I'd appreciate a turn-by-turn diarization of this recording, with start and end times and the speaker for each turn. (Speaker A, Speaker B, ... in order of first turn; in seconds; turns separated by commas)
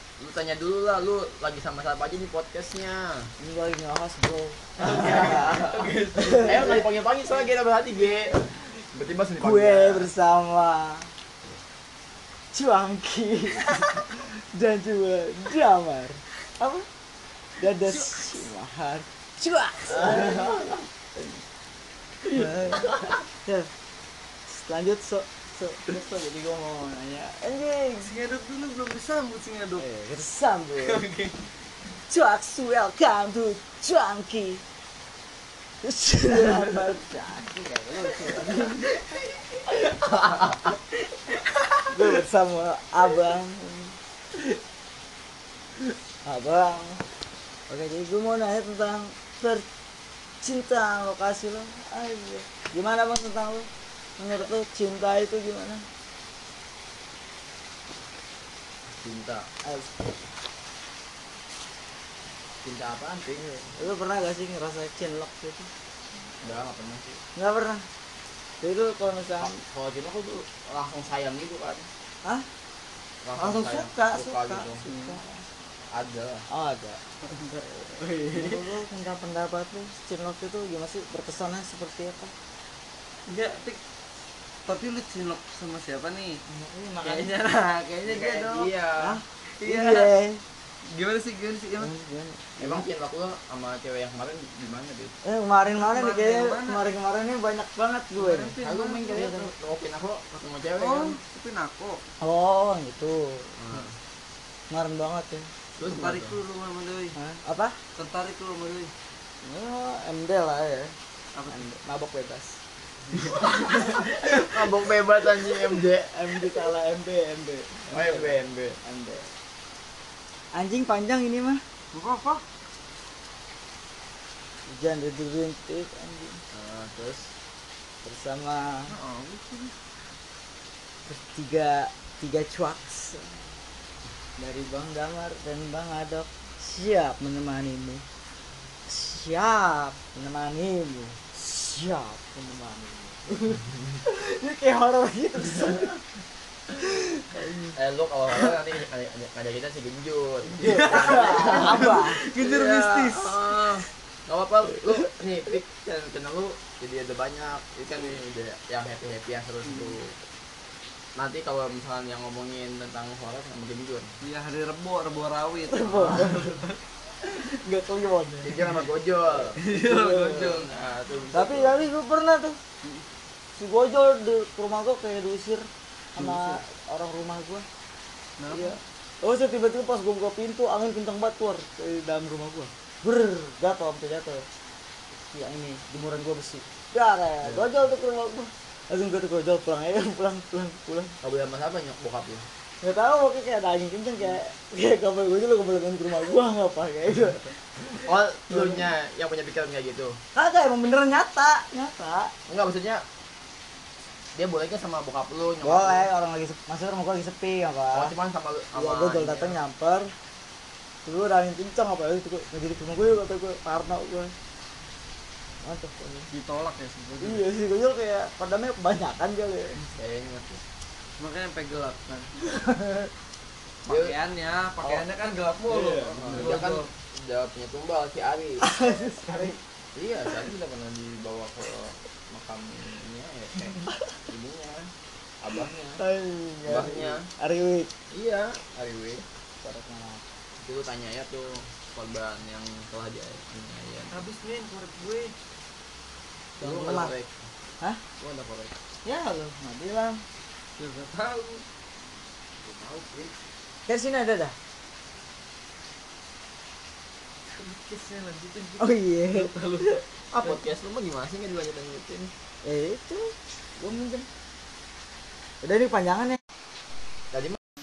Speaker A: 0.2-3.3, Speaker B: 3.4-6.7, Speaker C: 4.8-6.8, Speaker A: 6.3-10.1, Speaker B: 9.4-11.1, Speaker B: 12.5-16.9, Speaker B: 17.6-21.4, Speaker C: 17.9-18.4, Speaker A: 20.1-20.7, Speaker B: 22.2-23.7, Speaker B: 24.5-28.1, Speaker C: 28.0-29.9, Speaker B: 29.8-31.1, Speaker C: 30.8-31.4, Speaker B: 32.1-34.6, Speaker B: 35.8-39.0, Speaker C: 36.3-37.0, Speaker C: 38.3-38.8, Speaker A: 40.0-40.7, Speaker B: 41.9-44.0, Speaker B: 46.2-47.0, Speaker B: 47.7-49.7, Speaker B: 50.4-55.9, Speaker A: 58.9-59.5, Speaker B: 59.6-60.0, Speaker A: 62.6-63.8, Speaker B: 63.7-65.7, Speaker A: 66.4-67.2, Speaker B: 67.3-67.8, Speaker B: 68.6-69.6, Speaker A: 69.4-71.9, Speaker A: 73.2-74.8, Speaker B: 73.4-75.5, Speaker C: 74.8-75.2, Speaker A: 75.9-76.5, Speaker B: 76.5-77.0, Speaker C: 77.2-78.7, Speaker B: 78.3-82.3, Speaker C: 83.3-83.8, Speaker C: 84.7-86.4, Speaker B: 86.5-87.3, Speaker C: 87.0-88.7, Speaker A: 88.0-89.2, Speaker B: 89.0-90.4, Speaker C: 89.6-90.2, Speaker C: 90.8-91.9, Speaker B: 91.8-92.9, Speaker A: 92.6-95.2, Speaker B: 95.2-98.5, Speaker C: 95.7-96.8, Speaker C: 98.1-99.4, Speaker A: 98.6-101.2, Speaker B: 99.1-99.5, Speaker C: 100.7-102.0, Speaker B: 102.2-103.5, Speaker A: 103.6-104.0, Speaker B: 104.7-105.5, Speaker A: 105.8-106.4, Speaker C: 105.8-107.2, Speaker B: 107.2-107.8, Speaker C: 108.0-108.9, Speaker B: 109.4-111.0, Speaker C: 111.3-111.7, Speaker B: 111.5-112.6, Speaker C: 113.1-113.5, Speaker A: 113.5-116.1, Speaker B: 116.1-119.3, Speaker A: 117.9-118.8, Speaker B: 120.5-121.6, Speaker C: 121.9-122.4, Speaker B: 124.7-126.4, Speaker A: 126.5-127.3, Speaker B: 128.0-128.9, Speaker C: 128.9-129.7, Speaker B: 131.1-133.4, Speaker B: 134.4-138.1, Speaker B: 138.9-146.0, Speaker B: 147.2-147.7, Speaker A: 147.7-160.2, Speaker C: 150.6-153.8, Speaker B: 150.8-152.2, Speaker C: 159.7-160.0, Speaker A: 161.2-164.1, Speaker C: 164.2-166.8, Speaker B: 165.7-166.5, Speaker B: 167.4-168.7, Speaker A: 168.4-169.6, Speaker C: 169.6-170.6, Speaker B: 169.6-170.5, Speaker A: 170.3-171.8, Speaker B: 171.3-172.6, Speaker B: 173.6-177.7, Speaker C: 176.2-176.6, Speaker C: 178.4-178.8, Speaker B: 178.5-184.5, Speaker B: 185.3-191.2, Speaker A: 187.4-187.7, Speaker A: 191.2-192.5, Speaker B: 192.8-197.5, Speaker A: 197.9-200.2, Speaker B: 198.5-198.8, Speaker B: 200.3-202.3, Speaker A: 202.5-203.0, Speaker A: 204.3-206.1, Speaker B: 205.6-208.2, Speaker A: 207.9-209.6, Speaker B: 208.7-210.1, Speaker B: 211.1-214.3, Speaker B: 215.6-216.3, Speaker C: 216.3-217.5, Speaker B: 217.2-219.8, Speaker A: 219.8-220.6, Speaker C: 221.2-222.3, Speaker B: 222.5-223.1, Speaker C: 223.8-226.9, Speaker A: 223.9-224.2, Speaker B: 225.7-226.5, Speaker A: 226.1-228.7, Speaker B: 228.6-229.6, Speaker A: 229.9-236.0, Speaker B: 236.0-237.9, Speaker A: 236.7-237.3, Speaker A: 238.1-239.2, Speaker B: 239.6-240.2, Speaker A: 240.6-244.3, Speaker C: 244.1-245.3, Speaker A: 246.6-247.4, Speaker B: 246.6-247.1, Speaker A: 248.2-248.7, Speaker B: 249.1-250.2, Speaker C: 250.8-251.7, Speaker C: 252.6-253.3, Speaker B: 253.9-254.6, Speaker C: 257.5-260.6, Speaker B: 258.8-259.5, Speaker A: 260.3-262.3, Speaker B: 262.6-264.3, Speaker B: 265.6-266.4, Speaker A: 267.3-267.6